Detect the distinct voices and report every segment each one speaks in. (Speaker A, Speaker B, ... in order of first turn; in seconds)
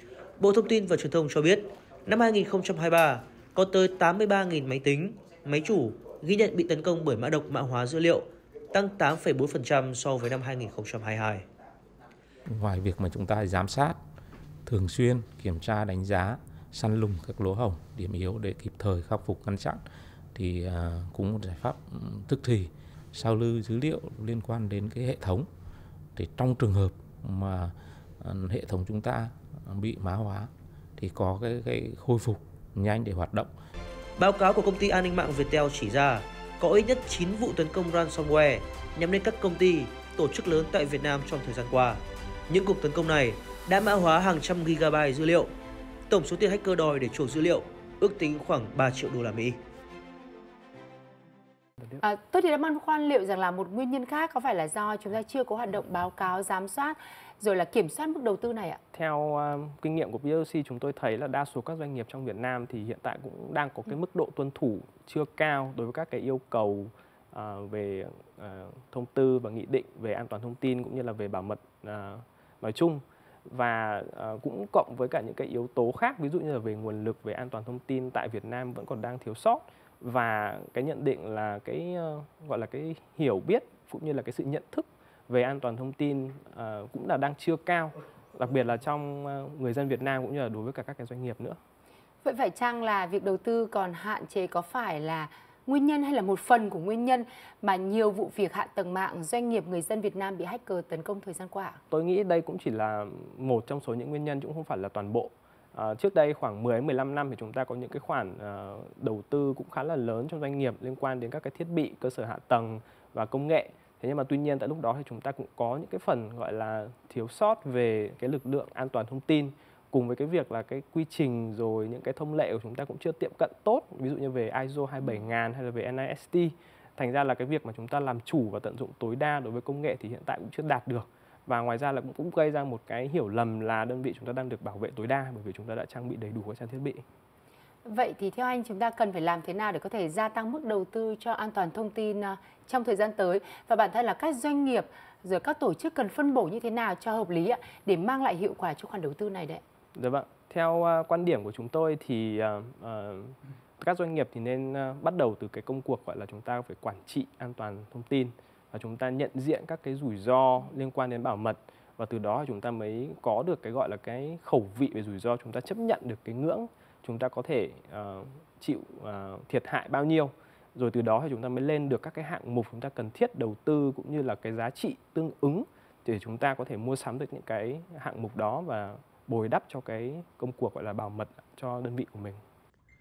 Speaker A: 0.4-11.4, 34.2-45.5, 46.1-49.6
Speaker B: 12.5-14.0, 14.7-19.8, 20.4-25.5, 26.2-33.5
Speaker C: 52.0-58.8, 92.2-101.8, 137.9-149.6
Speaker D: 58.9-91.6, 101.9-137.0, 149.9-182.4